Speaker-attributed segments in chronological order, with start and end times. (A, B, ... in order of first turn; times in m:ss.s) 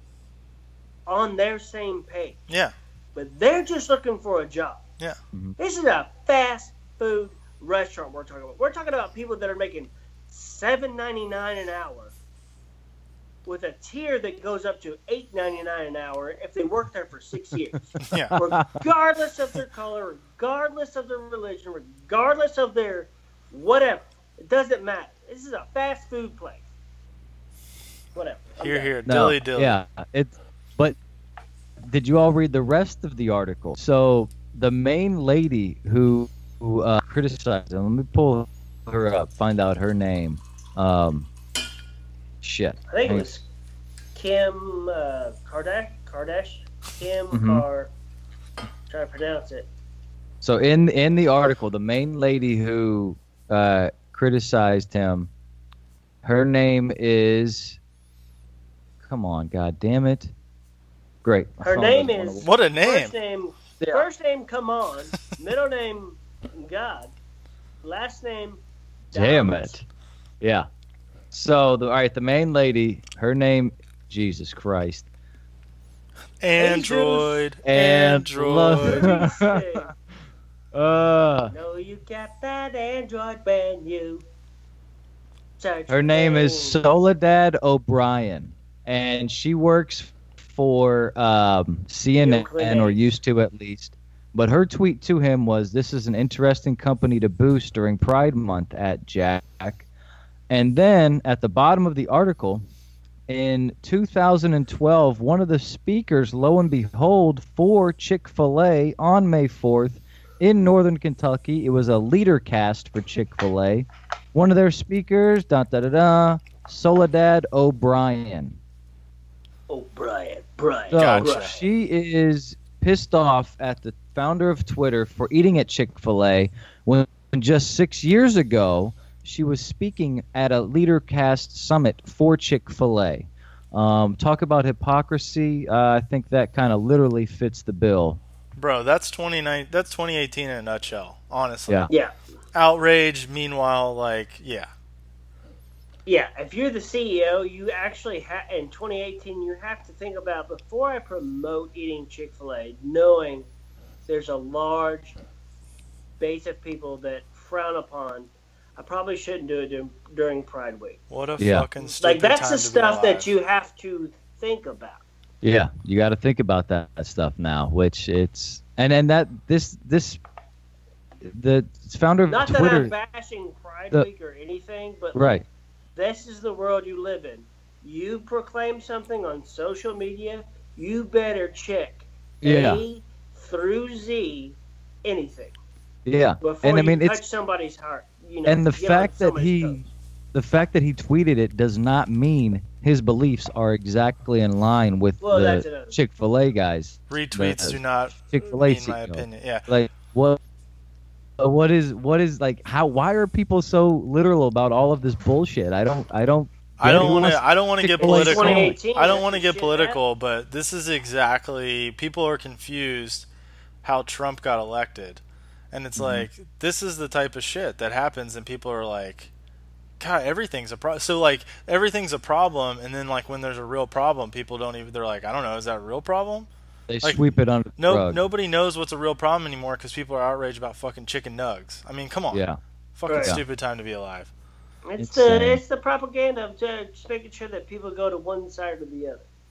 0:01.1-0:02.4 A
0:02.5-0:02.7 B
0:03.1-0:04.8 A
0:05.6-0:12.1 A
0:13.4-0:26.6 A
0:18.0-0:18.3 B
0:18.1-0:18.8 C
0:28.1-0:28.9 A
0:28.6-0:29.8 B
0:29.1-0:31.0 C
0:31.8-0:41.3 C
0:42.4-0:43.2 C
0:42.9-0:43.4 A
0:44.1-0:47.9 A
0:47.3-0:47.6 C
0:48.9-0:49.7 A
0:50.4-0:55.3 C
0:56.2-0:57.8 C
0:59.0-1:00.3 C
1:01.2-1:02.5 C
1:01.6-1:07.1 A
1:02.4-1:03.1 B
1:07.8-1:08.6 A
1:09.1-1:09.8 A
1:09.1-1:09.8 C
1:10.4-1:10.7 C
1:11.3-1:15.0 C
1:16.4-1:19.1 B
1:16.5-1:17.4 A
1:17.6-1:19.9 C
1:18.7-1:19.9 A
1:20.7-1:21.5 C
1:21.5-1:24.2 A
1:25.6-1:26.8 A
1:25.9-1:39.8 C
1:32.2-1:33.0 A
1:40.5-1:42.6 C
1:43.3-1:58.6 C
1:59.7-2:01.6 A
2:00.9-2:01.6 B
2:00.9-2:18.2 C
2:18.6-2:21.9 B
2:22.5-2:24.7 B
2:26.0-2:33.5 A
2:34.1-2:35.2 A
2:36.2-2:41.0 A
2:41.1-2:43.3 B
2:41.4-2:41.7 C
2:42.0-2:45.0 A
2:45.4-2:50.2 C
2:51.2-2:52.9 C
2:52.3-2:55.4 A
2:55.1-2:55.4 C
2:56.0-3:05.5 A
3:02.4-3:02.8 C
3:06.0-3:07.2 C
3:06.4-3:09.8 A
3:08.4-3:20.4 C
3:15.2-3:16.0 A
3:17.1-3:19.6 B
3:21.4-3:28.8 C
3:26.8-3:33.3 B
3:28.0-3:30.0 A
3:33.8-3:39.3 B
3:36.0-3:36.3 C
3:40.0-3:46.5 B
3:46.9-3:48.2 C
3:47.8-3:52.4 B
3:52.3-3:52.6 C
3:52.9-3:54.3 B
3:53.1-3:53.4 A
3:54.8-3:59.2 A
3:55.0-3:55.6 C